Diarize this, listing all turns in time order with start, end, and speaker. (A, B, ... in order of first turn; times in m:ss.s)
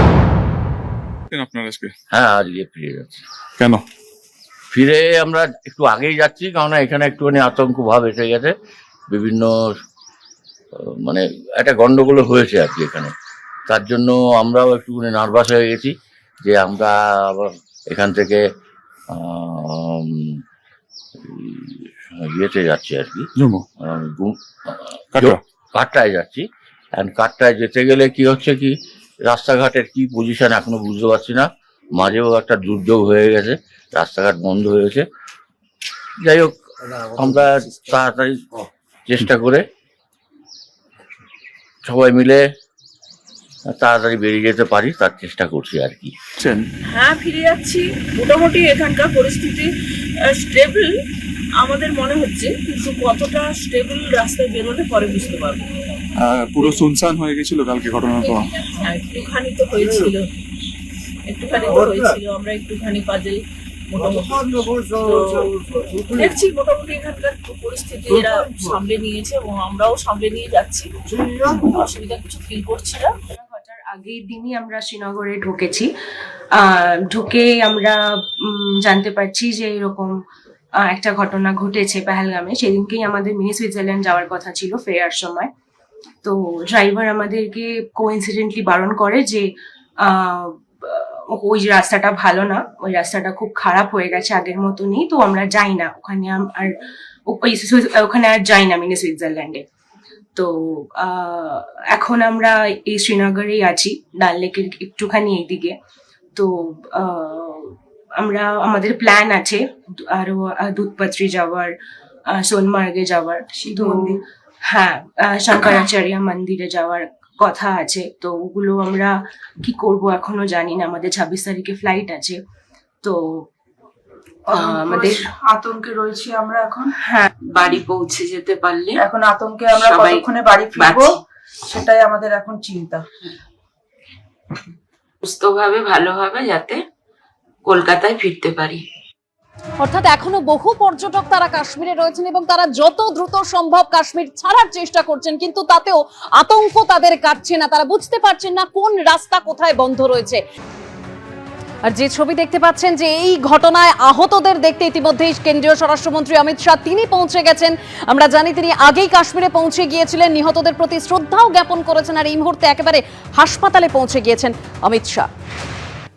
0:01.3-0:01.9 A
0:02.1-0:03.2 B
0:03.6-0:03.8 A
0:04.7-0:08.5 B
0:09.1-0:09.8 B
0:10.8-0:13.1 B
0:13.7-0:18.4 B
0:19.1-0:20.4 B
0:21.2-0:23.3 B
0:23.4-0:23.6 A
0:23.8-0:28.7 B
0:25.1-0:25.4 A
0:29.2-0:35.0 B
0:36.2-0:36.6 B
0:37.1-0:38.4 B
0:39.0-0:39.6 B
0:41.8-0:42.4 B
0:43.7-0:46.1 B
0:46.4-0:46.6 A
0:46.9-0:49.7 C
0:50.3-0:50.9 C
0:51.6-0:55.7 C
0:56.2-0:58.5 A
0:58.2-1:00.2 C
1:01.3-1:13.1 C
1:13.3-1:15.9 D
1:16.5-1:20.1 D
1:20.8-1:25.5 D
1:26.2-1:29.5 D
1:30.0-1:36.7 D
1:37.3-1:39.6 D
1:40.4-1:45.8 D
1:46.4-1:51.7 D
1:52.3-2:02.4 D
1:53.5-1:54.2 E
2:03.0-2:03.4 D
2:04.5-2:06.9 E
2:04.5-2:05.3 D
2:07.5-2:09.0 F
2:09.0-2:13.1 E
2:09.7-2:11.2 F
2:15.2-2:16.8 F
2:17.6-2:18.8 F
2:19.8-2:30.4 G
2:31.9-2:45.3 G